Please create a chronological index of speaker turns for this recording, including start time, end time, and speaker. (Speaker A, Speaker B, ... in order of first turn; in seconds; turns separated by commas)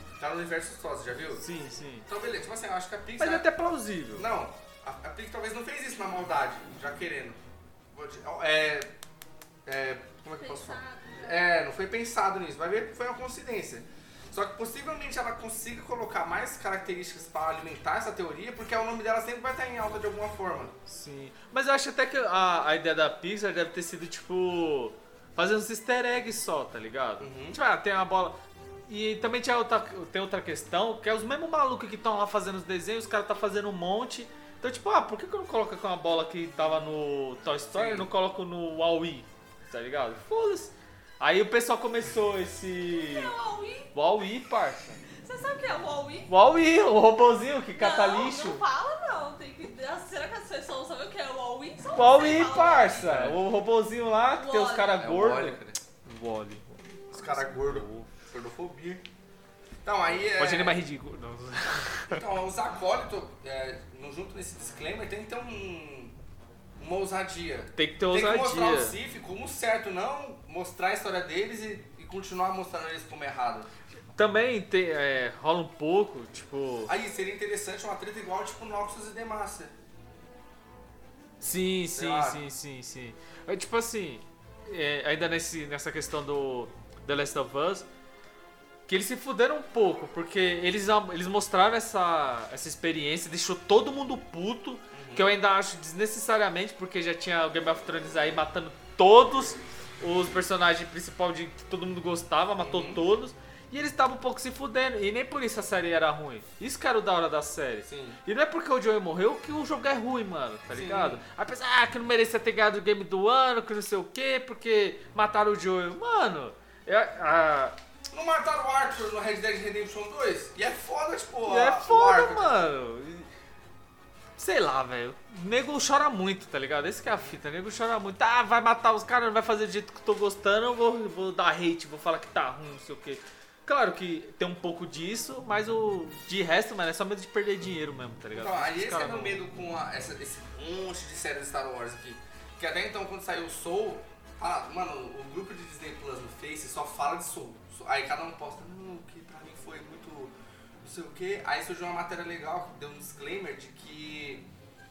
Speaker A: 0.2-1.4, Speaker B: 1.4-2.0, Speaker A: 2.1-3.5, Speaker B: 3.2-4.2, Speaker A: 4.2-7.4, Speaker A: 7.9-8.9, Speaker A: 9.7-20.8, Speaker C: 10.4-11.6, Speaker B: 20.9-43.3, Speaker A: 27.2-27.6, Speaker A: 37.7-38.1, Speaker C: 42.9-43.9, Speaker B: 43.9-45.0, Speaker C: 45.2-46.3, Speaker B: 46.3-48.6, Speaker C: 47.8-53.1, Speaker B: 51.9-58.1, Speaker A: 52.9-53.4, Speaker C: 54.3-55.0, Speaker A: 55.0-55.8, Speaker A: 57.1-59.0, Speaker A: 59.8-60.8, Speaker B: 60.3-62.2, Speaker A: 62.1-66.1, Speaker A: 66.8-73.7, Speaker B: 67.7-69.0, Speaker B: 74.1-76.9, Speaker A: 76.9-79.7, Speaker B: 81.4-87.9, Speaker A: 81.8-82.4, Speaker B: 88.9-117.8, Speaker A: 94.9-95.3, Speaker A: 102.6-103.0, Speaker A: 107.8-108.2, Speaker A: 110.7-111.2, Speaker A: 118.1-122.7, Speaker B: 121.4-123.3, Speaker B: 124.4-139.4, Speaker A: 138.3-154.4